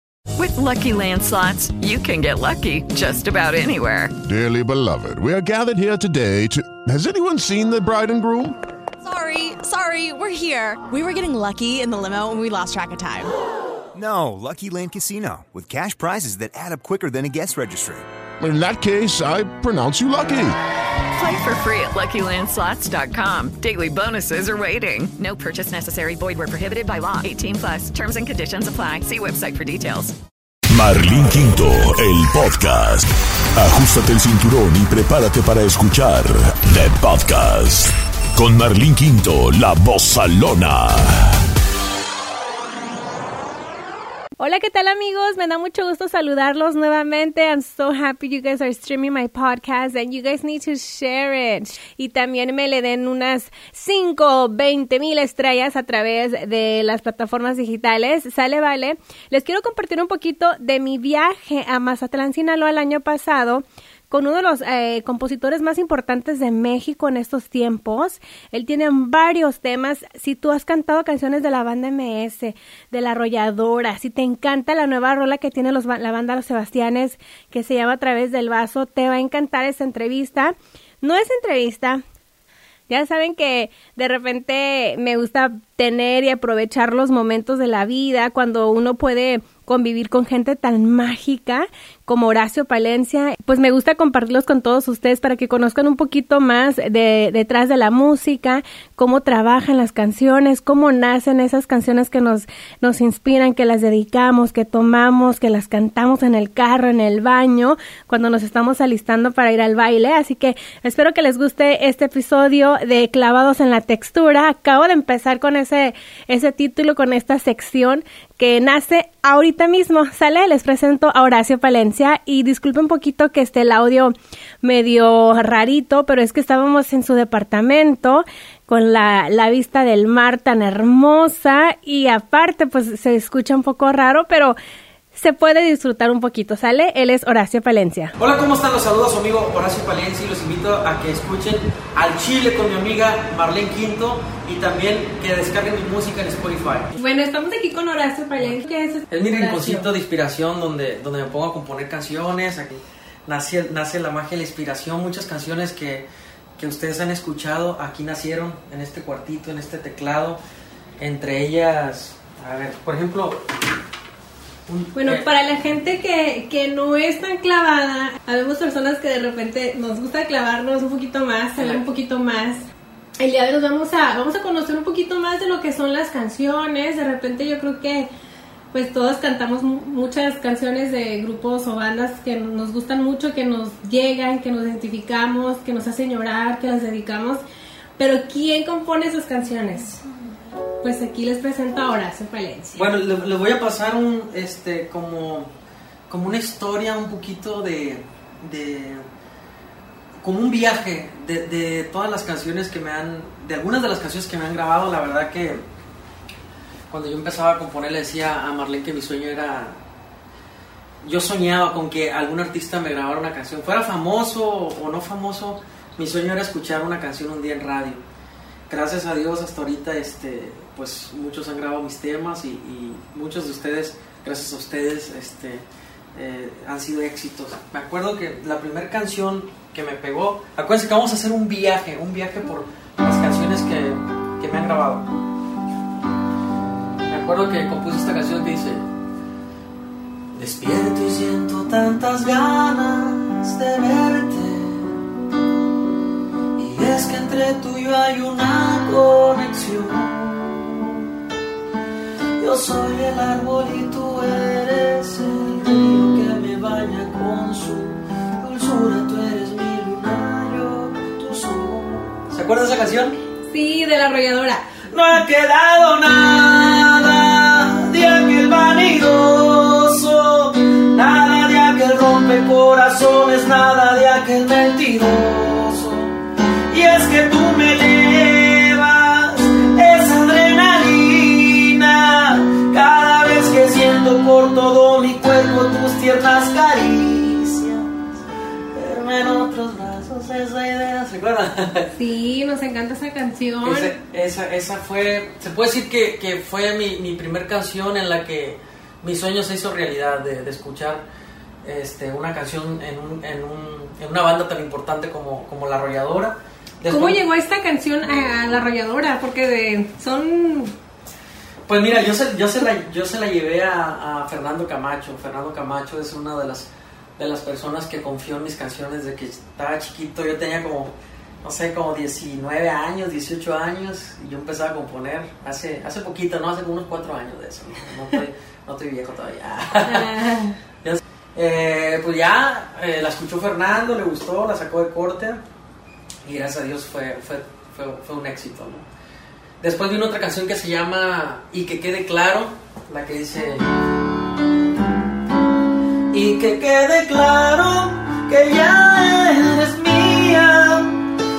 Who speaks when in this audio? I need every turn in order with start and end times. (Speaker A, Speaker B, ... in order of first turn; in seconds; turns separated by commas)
Speaker A: 0.4-4.2, Speaker B: 4.2-8.6, Speaker C: 9.0-13.3, Speaker D: 13.9-18.1, Speaker B: 18.4-20.6, Speaker A: 21.1-30.2, Speaker E: 30.7-41.4, Speaker F: 44.4-82.0, Speaker F: 82.9-134.6, Speaker F: 135.1-138.1, Speaker G: 138.2-146.9, Speaker F: 147.0-149.9, Speaker G: 149.1-160.4, Speaker G: 161.0-163.4, Speaker G: 164.7-165.2, Speaker F: 164.9-172.6, Speaker G: 171.6-171.8, Speaker F: 173.2-178.1, Speaker F: 178.7-187.4, Speaker F: 188.0-190.0, Speaker F: 190.8-192.8, Speaker G: 192.8-195.5, Speaker G: 196.1-199.1, Speaker G: 200.2-205.6, Speaker G: 206.9-209.8, Speaker G: 211.0-218.0, Speaker G: 218.7-235.1, Speaker G: 237.1-238.9, Speaker G: 240.3-245.0, Speaker G: 246.6-251.1, Speaker G: 252.4-263.2, Speaker F: 263.5-264.7, Speaker G: 264.9-276.2, Speaker G: 276.7-287.9, Speaker G: 288.7-291.9, Speaker F: 291.9-293.9, Speaker G: 293.6-301.1, Speaker G: 301.6-307.2, Speaker F: 306.9-310.7, Speaker G: 311.7-330.1, Speaker F: 329.9-330.6, Speaker G: 330.8-335.4, Speaker G: 336.2-338.9, Speaker G: 339.6-343.7, Speaker G: 346.1-351.1